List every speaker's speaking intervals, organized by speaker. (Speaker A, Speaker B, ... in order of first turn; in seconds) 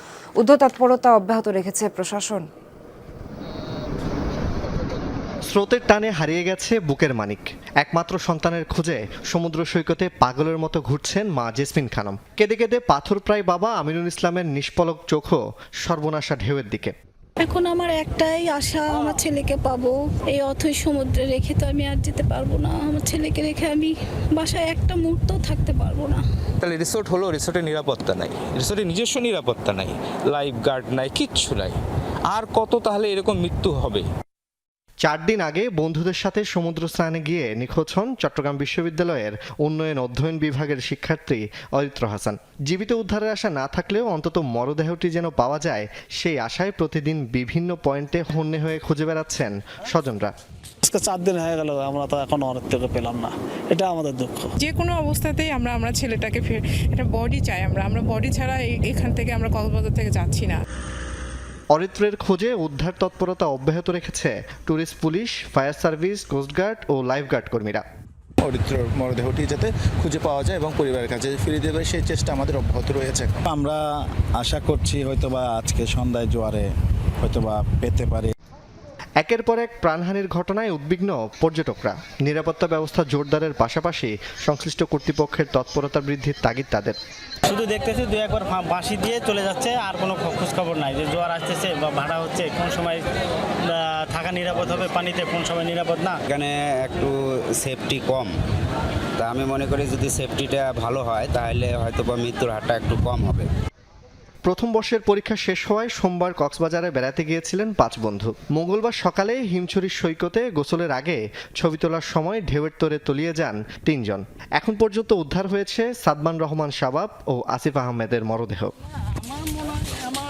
Speaker A: 0.4-2.5
Speaker B: 5.5-16.9, 35.0-50.3, 61.7-67.8, 79.2-87.0, 104.4-118.7
Speaker C: 17.4-26.2
Speaker D: 26.6-31.8, 32.3-34.0
Speaker E: 50.8-54.5
Speaker F: 54.6-60.6
Speaker G: 68.4-73.4
Speaker H: 73.5-73.8, 74.4-76.7, 77.2-78.3
Speaker I: 87.5-93.0, 93.7-96.2
Speaker J: 96.3-98.3, 99.2-103.5